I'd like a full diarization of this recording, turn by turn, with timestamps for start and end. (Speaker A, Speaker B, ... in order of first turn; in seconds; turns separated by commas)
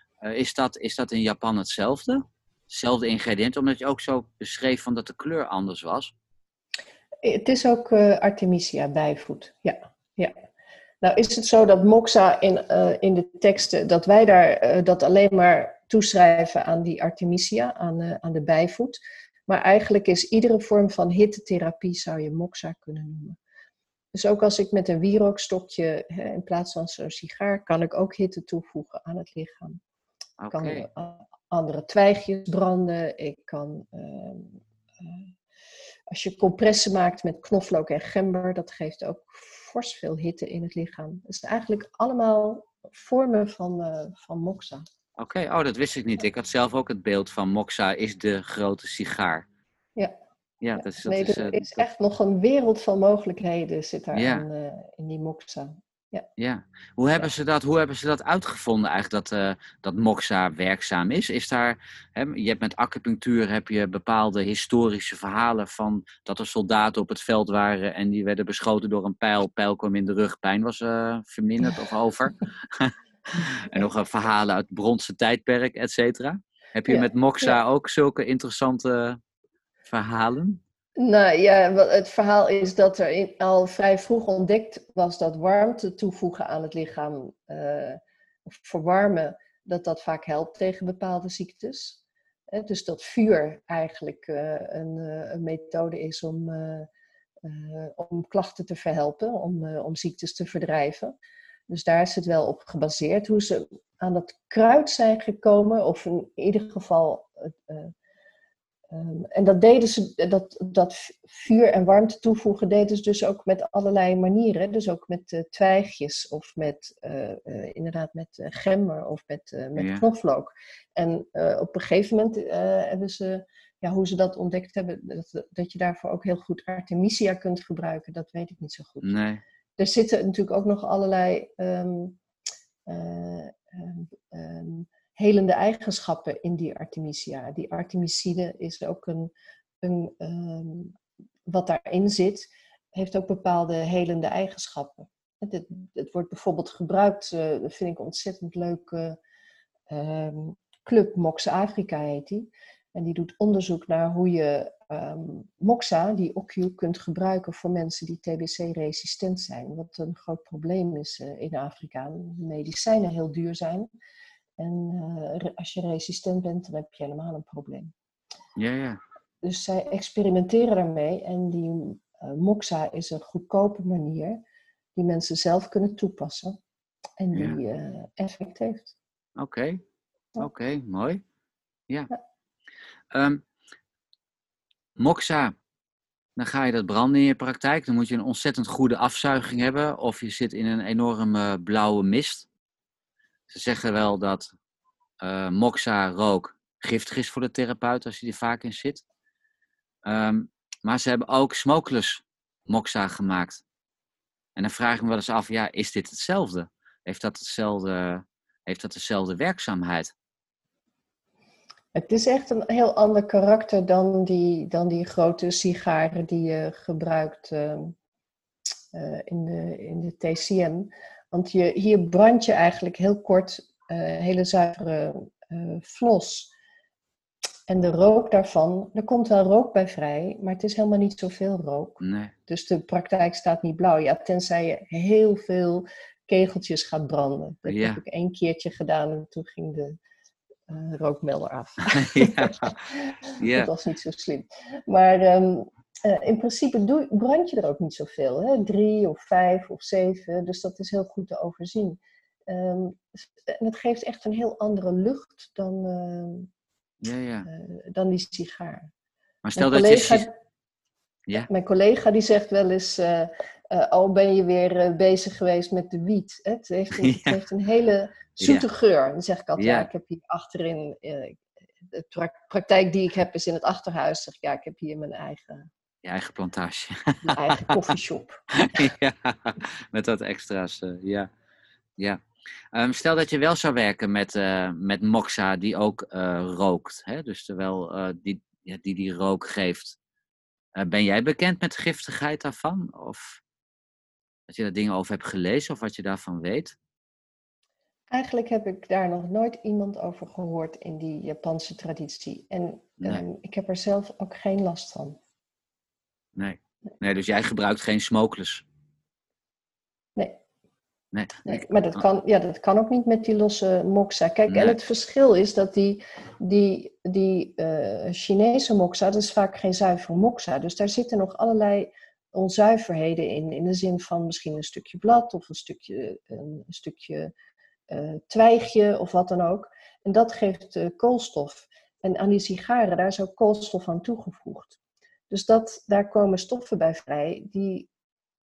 Speaker A: 0.2-6.1, Speaker B: 7.2-10.3, Speaker B: 11.0-23.4, Speaker B: 24.1-29.8, Speaker A: 30.4-30.9, Speaker B: 30.5-35.3, Speaker B: 36.1-44.9, Speaker A: 45.2-49.5, Speaker A: 50.6-51.9, Speaker B: 50.8-56.3, Speaker A: 54.1-54.4, Speaker A: 56.4-79.2, Speaker B: 76.9-77.6, Speaker A: 79.9-80.6, Speaker B: 81.0-92.0, Speaker B: 92.5-96.9, Speaker B: 97.4-101.2, Speaker B: 101.7-107.9, Speaker B: 108.9-129.1, Speaker A: 119.8-120.0, Speaker A: 129.0-129.4, Speaker B: 129.8-132.2, Speaker B: 132.9-139.3, Speaker B: 139.8-149.2, Speaker B: 149.9-163.9, Speaker B: 164.6-167.9, Speaker A: 168.6-169.0, Speaker B: 169.4-174.4, Speaker B: 175.0-176.6, Speaker B: 177.2-178.9, Speaker A: 179.4-179.8, Speaker A: 180.4-181.2, Speaker A: 183.1-183.4, Speaker A: 185.0-185.6, Speaker A: 186.4-192.5, Speaker A: 193.5-194.5, Speaker A: 195.2-199.0, Speaker A: 200.1-203.6, Speaker A: 204.6-210.1, Speaker B: 211.9-217.9, Speaker B: 218.9-226.5, Speaker B: 227.7-240.0, Speaker A: 232.0-232.3, Speaker A: 237.7-238.0, Speaker B: 240.7-256.5, Speaker A: 241.9-242.7, Speaker A: 243.4-243.7, Speaker A: 257.0-257.5, Speaker B: 257.4-258.9, Speaker A: 259.4-260.3, Speaker B: 259.6-260.4, Speaker B: 261.4-275.7, Speaker A: 267.0-267.4, Speaker A: 268.4-268.7, Speaker A: 269.6-269.9, Speaker A: 276.0-277.7, Speaker B: 277.2-278.9, Speaker A: 278.5-281.3, Speaker A: 282.7-290.0, Speaker A: 290.8-293.4, Speaker A: 294.5-296.8, Speaker B: 298.1-305.2, Speaker A: 306.4-308.6, Speaker A: 311.1-311.6, Speaker B: 311.4-327.3, Speaker A: 314.5-314.8, Speaker B: 327.9-334.8, Speaker B: 335.3-337.9